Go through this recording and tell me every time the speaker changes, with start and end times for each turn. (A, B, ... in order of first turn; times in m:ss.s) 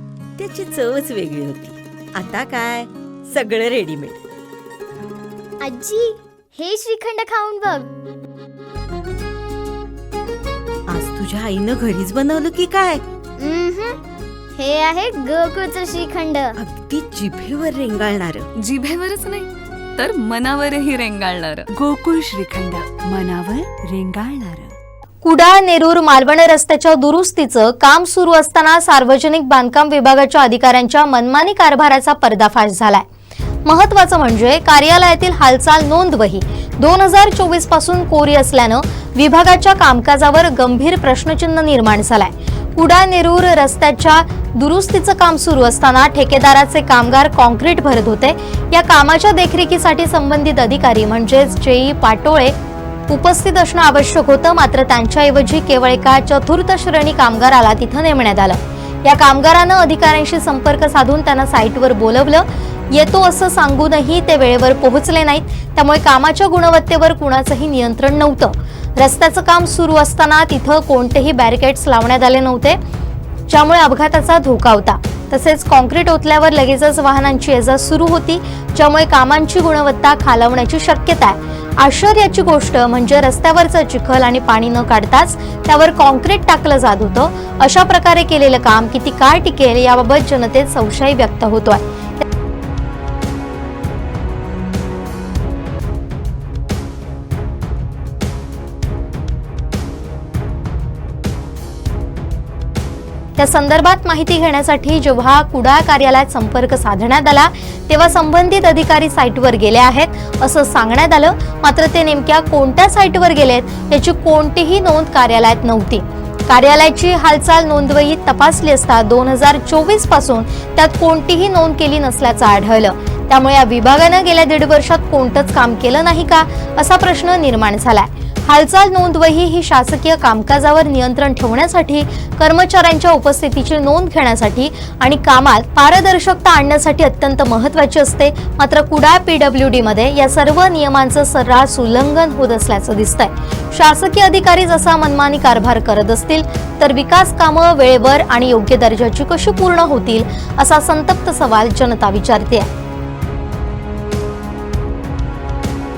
0:00.4-0:04.2 A
0:05.6-0:07.9 B
0:10.9-0:13.0 A
0:13.4-0:14.0 B
0:14.6-0:16.6 B
0:16.6-0:18.5 A
0:18.6-0:21.7 C
0:21.7-0:24.7 D
0:25.2-0:33.1 E
0:33.6-0:52.6 E
0:53.1-1:12.8 E
1:13.5-1:31.8 E
1:43.4-2:32.7 E